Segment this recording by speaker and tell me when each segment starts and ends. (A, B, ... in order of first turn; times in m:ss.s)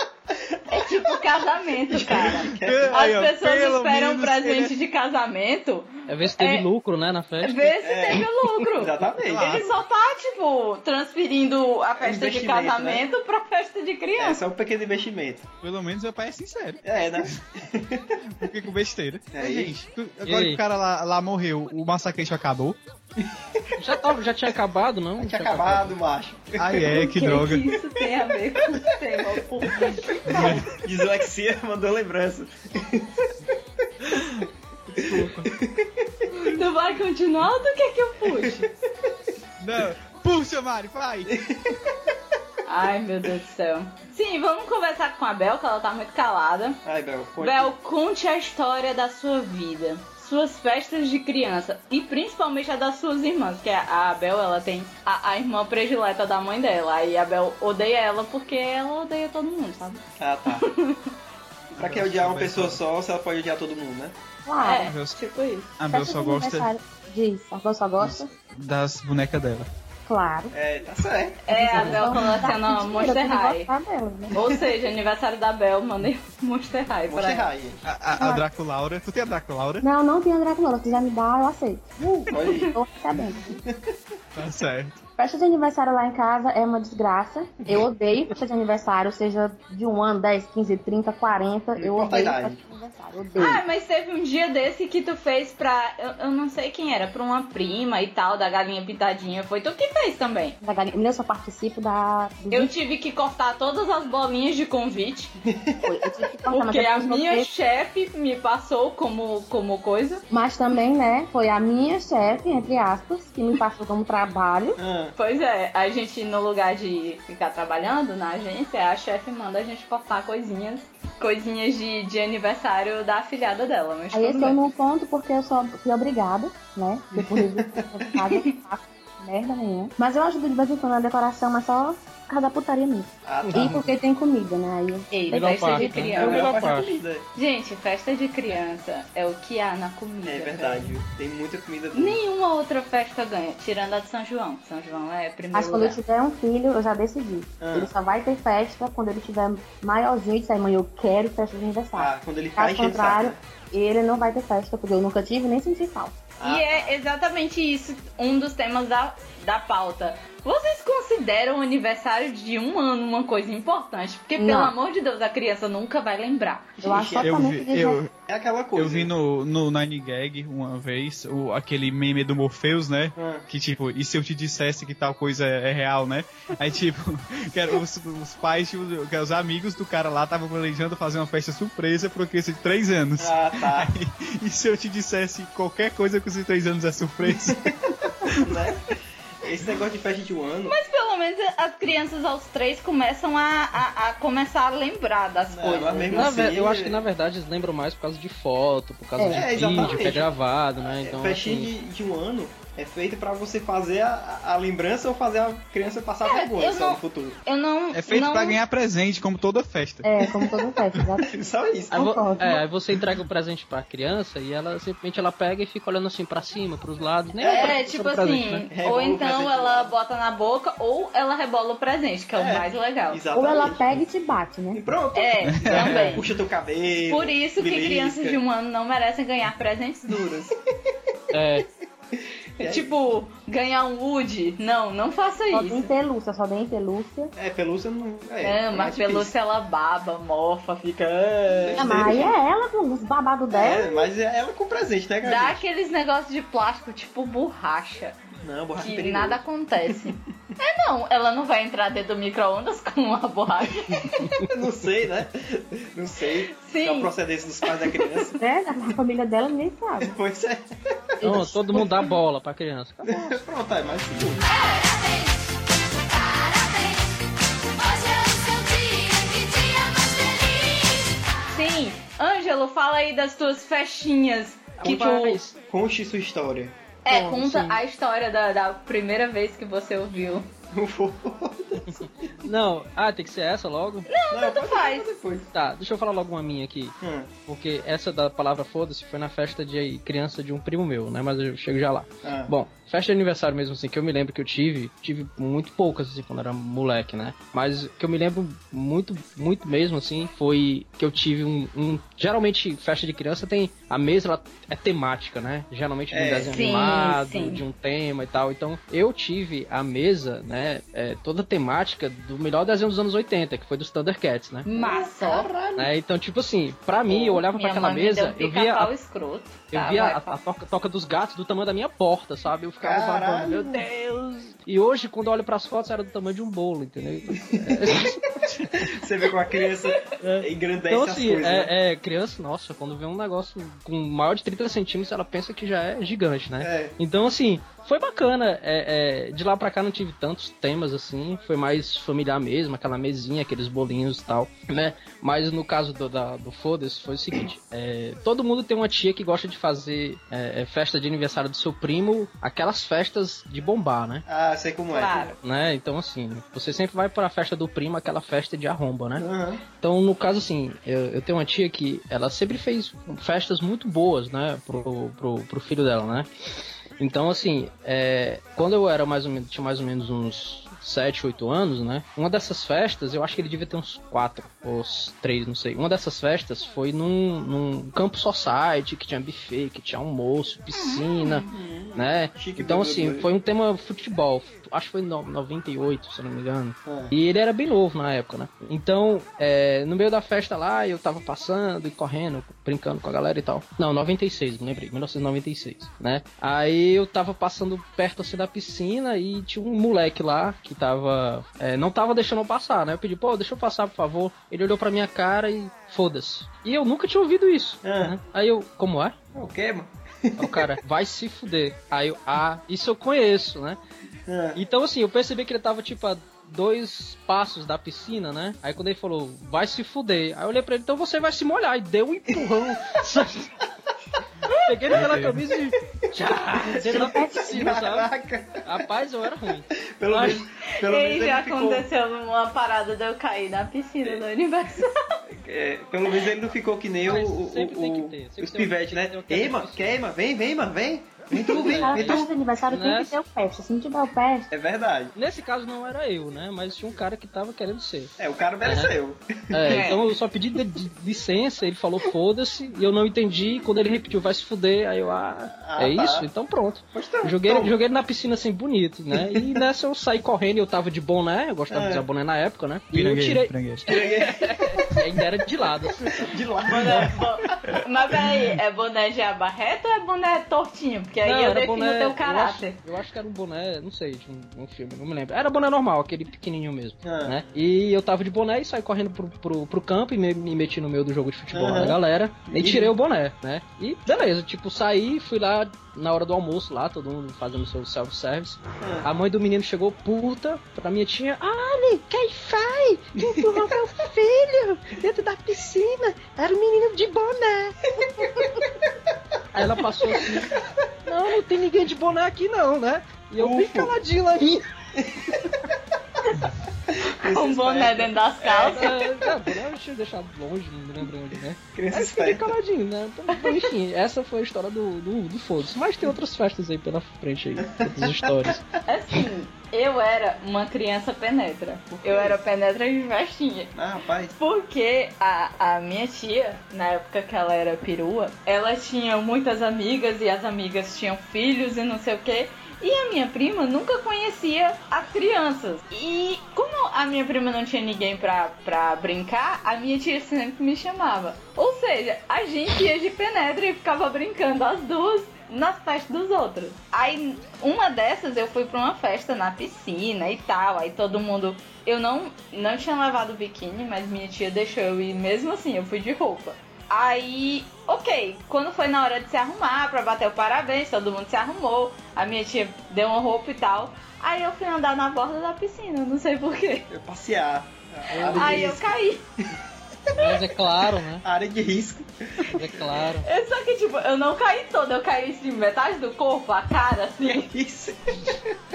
0:00.3-0:00.8 A
0:00.7-0:06.7 B
0:01.9-0:03.0 A
0:02.4-0:04.7 C
0:06.1-0:07.8 D
0:07.4-0:14.4 B
0:07.8-0:09.6 A
0:09.3-0:09.7 C
0:12.0-0:13.1 A
0:14.2-0:15.5 A
0:15.6-0:17.3 C
0:16.8-0:18.2 A
0:18.4-0:22.8 C
0:19.3-0:19.8 A
0:20.2-0:20.6 D
0:23.2-0:23.6 A
0:23.8-0:26.0 D
0:25.2-0:27.5 A
0:26.6-0:27.6 C
0:26.9-0:30.6 B
0:30.2-0:30.7 C
0:30.3-0:33.3 A
0:34.0-0:35.5 C
0:35.0-0:36.1 A
0:36.3-0:38.7 B
0:39.6-0:41.4 C
0:41.3-0:41.6 A
0:42.7-0:46.8 B
0:46.8-0:47.8 A
0:47.4-1:01.1 B
1:00.2-1:00.7 A
1:01.7-1:02.8 C
1:01.8-1:04.2 A
1:04.5-1:04.9 E
1:04.6-1:05.7 B
1:04.8-1:05.2 C
1:05.8-1:06.7 C
1:05.9-1:08.3 E
1:08.0-1:09.7 C
1:10.1-1:10.5 E
1:10.5-1:12.1 A
1:11.5-1:13.7 B
1:11.5-1:14.3 E
1:14.3-1:17.5 B
1:17.1-1:17.8 A
1:17.8-1:19.8 C
1:18.2-1:18.4 E
1:19.8-1:21.9 E
1:22.3-1:22.7 A
1:22.4-1:22.7 B
1:22.5-1:23.6 E
1:23.5-1:23.8 A
1:24.4-1:25.0 C
1:25.2-1:33.6 E
1:31.8-1:32.6 A
1:33.4-1:40.6 B
1:40.6-1:42.7 E
1:42.5-1:45.3 B
1:45.4-1:45.9 A
1:45.8-1:47.5 E
1:46.5-1:50.2 B
1:50.3-1:54.8 E
1:54.8-1:55.2 A
1:55.2-2:04.6 B
2:04.1-2:15.1 E
2:13.2-2:13.8 A
2:13.5-2:13.9 D
2:15.1-2:16.6 B
2:15.3-2:17.0 D
2:15.8-2:17.3 A
2:17.4-2:20.9 B
2:20.2-2:22.2 A
2:21.9-2:26.0 B
2:25.5-2:36.2 E
2:27.6-2:27.9 A
2:31.9-2:33.4 A
2:36.4-2:37.0 A
2:36.4-2:46.8 B
2:44.4-2:44.7 E
2:46.8-2:47.4 A
2:46.8-2:48.0 E
2:47.2-2:48.1 C
2:48.3-2:49.1 A
2:48.8-3:08.5 C
2:53.2-2:53.5 A
3:03.2-3:03.9 A
3:08.3-3:08.8 A
3:09.4-3:10.8 A
3:10.7-3:16.4 B
3:15.5-3:17.0 A
3:16.1-3:21.7 D
3:19.2-3:19.5 E
3:19.2-3:27.4 A
3:26.2-3:28.6 B
3:27.9-3:30.0 C
3:30.0-3:31.4 E
3:30.2-3:32.2 A
3:31.9-3:32.7 E
3:31.9-3:38.6 D
3:37.4-3:37.8 A
3:37.5-3:43.2 B
3:38.7-3:39.9 A
3:42.3-3:44.0 A
3:43.3-3:44.8 E
3:44.7-3:48.4 A
3:45.2-3:46.3 B
3:45.7-3:46.0 C
3:47.1-3:50.5 B
3:51.3-3:51.7 D
3:52.6-3:55.9 B
3:52.6-3:52.9 A
3:55.5-3:57.3 E
3:57.4-3:59.3 A
3:58.4-4:02.1 B
4:00.8-4:02.4 A
4:01.8-4:04.1 E
4:03.5-4:05.6 A
4:05.2-4:08.2 B
4:08.4-4:09.4 A
4:08.8-4:14.3 B
4:14.5-4:18.4 A
4:16.5-4:17.1 B
4:17.8-4:18.3 B
4:18.4-4:20.2 E
4:20.0-4:20.7 A
4:21.2-4:22.1 E
4:21.2-4:23.4 D
4:23.0-4:24.5 A
4:24.6-4:24.9 B
4:28.0-4:29.4 B
4:31.5-4:35.4 B
4:34.8-4:35.6 D
4:34.8-4:35.1 A
4:35.6-4:36.8 A
4:37.0-4:40.5 B
4:37.1-4:37.8 D
4:40.7-4:42.3 A
4:41.9-4:44.1 D
4:44.1-4:45.1 B
4:44.3-4:45.5 A
4:45.5-4:47.0 D
4:47.0-4:47.3 A
4:47.5-5:14.7 D
4:52.2-4:52.5 A
5:06.1-5:06.6 A
5:06.5-5:07.6 B
5:14.6-5:15.5 B
5:14.7-5:15.9 A
5:15.8-5:18.9 D
5:17.1-5:20.4 B
5:19.7-5:28.7 D
5:22.8-5:23.8 A
5:27.5-5:28.1 A
5:28.7-5:31.7 A
5:29.6-5:30.0 B
5:30.2-5:54.2 D
5:36.6-5:36.9 A
5:54.3-5:55.3 A
5:54.9-5:55.4 B
5:55.4-5:59.3 D
5:59.2-5:59.6 A
5:59.8-6:06.3 D
6:07.0-6:49.2 D
6:20.7-6:21.5 B
6:21.5-6:23.3 A
6:26.9-6:27.1 A
6:47.8-6:48.2 A
6:49.3-6:50.7 A
6:50.4-6:53.8 D
6:54.3-6:54.6 A
6:54.6-7:03.5 D
7:04.7-7:08.1 D
7:05.0-7:05.3 C
7:06.1-7:08.7 A
7:06.7-7:07.5 E
7:08.6-7:10.4 D
7:09.8-7:11.9 A
7:10.7-7:15.0 B
7:15.3-7:22.3 A
7:17.1-7:20.0 D
7:21.3-7:24.5 E
7:21.6-7:23.2 D
7:24.5-7:25.1 A
7:25.2-7:28.1 D
7:28.2-7:30.0 A
7:28.6-7:28.9 D
7:29.5-7:46.3 D
7:29.7-7:30.0 B
7:35.6-7:36.3 A
7:36.9-7:37.7 A
7:39.1-7:39.6 A
7:41.7-7:42.0 A
7:42.9-7:43.8 C
7:43.9-7:45.0 A
7:46.2-7:47.2 A
7:46.7-7:52.8 B
7:51.2-8:17.8 D
7:57.0-7:57.4 A
8:01.5-8:02.9 A
8:08.8-8:09.1 A
8:13.2-8:13.7 A
8:19.5-8:20.5 D
8:20.2-8:20.5 A
8:21.0-8:24.7 D
8:23.4-8:24.0 A
8:25.0-8:25.4 A
8:26.9-8:29.5 A
8:27.0-8:28.9 B
8:28.7-8:38.6 D
8:31.8-8:32.6 A
8:37.7-8:38.6 A
8:38.9-8:43.7 B
8:41.9-8:42.4 A
8:43.7-8:44.4 A
8:44.4-9:26.9 B
9:26.9-9:28.9 A
9:28.1-9:28.8 D
9:28.3-9:29.2 B
9:30.2-9:31.2 D
9:31.2-9:33.0 A
9:32.5-9:33.3 D
9:33.2-9:37.5 B
9:37.2-9:38.6 A